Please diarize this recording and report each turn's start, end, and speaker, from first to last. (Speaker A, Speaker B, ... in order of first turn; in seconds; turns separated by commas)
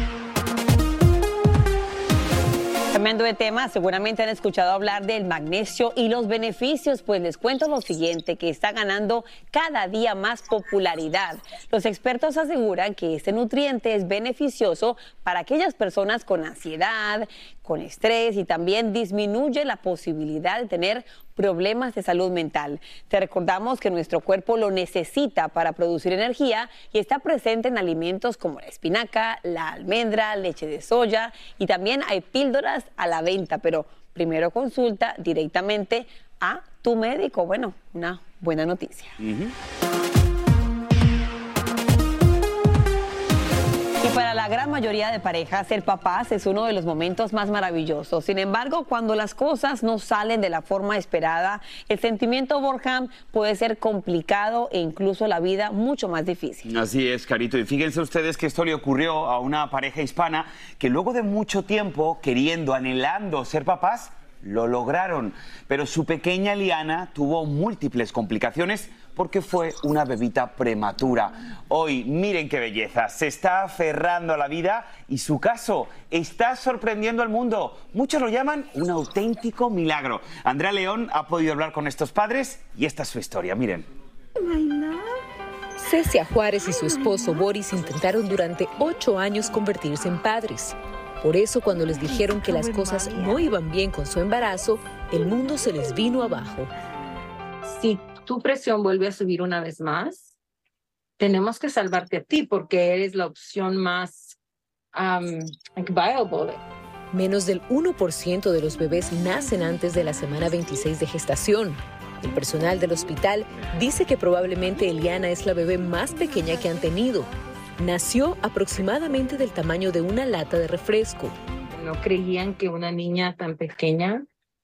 Speaker A: 2.9-39.2, Speaker B: 39.2-39.5, Speaker A: 44.0-56.7, Speaker B: 56.7-83.9, Speaker C: 85.8-96.7, Speaker D: 97.7-100.3, Speaker D: 101.2-104.4, Speaker D: 104.9-106.6, Speaker C: 107.1-121.3, Speaker D: 121.8-124.2